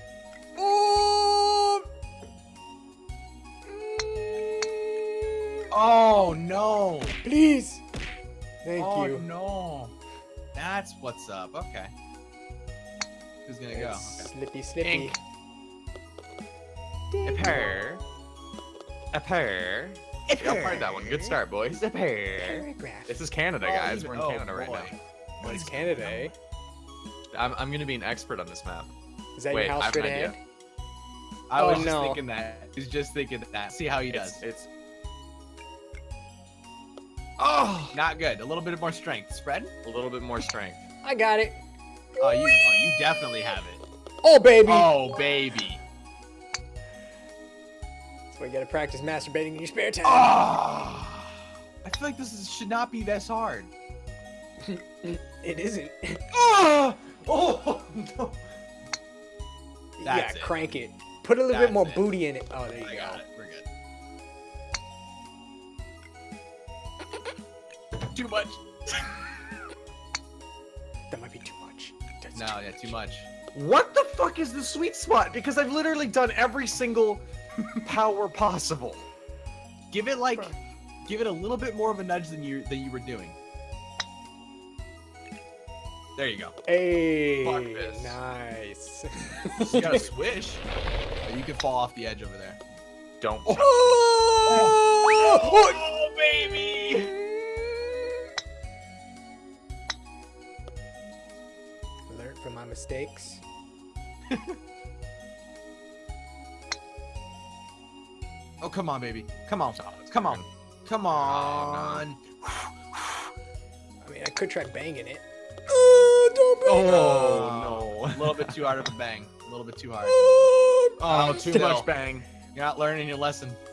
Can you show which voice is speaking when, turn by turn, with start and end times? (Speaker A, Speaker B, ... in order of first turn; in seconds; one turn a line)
Speaker A: 0.6-1.9
Speaker A: 3.6-5.6
Speaker B: 5.7-7.2
Speaker A: 7.2-7.8
Speaker A: 8.6-9.3
Speaker B: 8.8-10.0
Speaker B: 10.6-11.9
Speaker B: 13.5-14.3
Speaker A: 13.7-15.2
Speaker C: 14.8-15.1
Speaker A: 17.1-17.9
Speaker C: 17.2-18.0
Speaker C: 19.1-24.9
Speaker B: 20.3-20.9
Speaker A: 20.7-21.4
Speaker A: 22.4-23.2
Speaker B: 23.6-26.3
Speaker A: 25.4-26.4
Speaker C: 27.3-28.9
Speaker A: 29.4-30.4
Speaker C: 29.5-30.4
Speaker B: 31.5-34.4
Speaker A: 31.6-32.2
Speaker C: 34.1-34.7
Speaker C: 37.4-38.0
Speaker B: 37.9-39.7
Speaker C: 39.8-40.9
Speaker A: 41.0-41.6
Speaker A: 42.2-42.8
Speaker B: 42.2-43.8
Speaker A: 44.2-45.0
Speaker B: 44.7-45.8
Speaker A: 48.3-50.5
Speaker B: 50.0-53.7
Speaker A: 54.6-56.2
Speaker C: 56.3-58.4
Speaker A: 60.0-63.2
Speaker B: 60.0-60.5
Speaker B: 61.5-62.2
Speaker B: 62.8-63.7
Speaker B: 68.1-69.1
Speaker A: 71.1-73.0
Speaker B: 72.3-73.3
Speaker C: 73.5-77.2
Speaker C: 77.8-79.0
Speaker B: 79.9-80.5
Speaker B: 81.0-83.4
Speaker B: 86.2-86.5
Speaker A: 86.7-90.0
Speaker C: 87.4-88.2
Speaker B: 89.6-90.6
Speaker B: 91.2-92.6
Speaker C: 93.2-93.7
Speaker A: 93.5-95.8
Speaker B: 94.5-97.1
Speaker A: 96.8-98.1
Speaker A: 102.1-103.4
Speaker B: 108.6-113.3
Speaker C: 109.8-110.5
Speaker C: 111.1-112.1
Speaker A: 114.0-117.2
Speaker C: 116.7-118.9
Speaker B: 116.8-120.2
Speaker A: 120.0-121.9
Speaker B: 121.0-121.9
Speaker C: 121.1-122.3
Speaker B: 122.5-123.6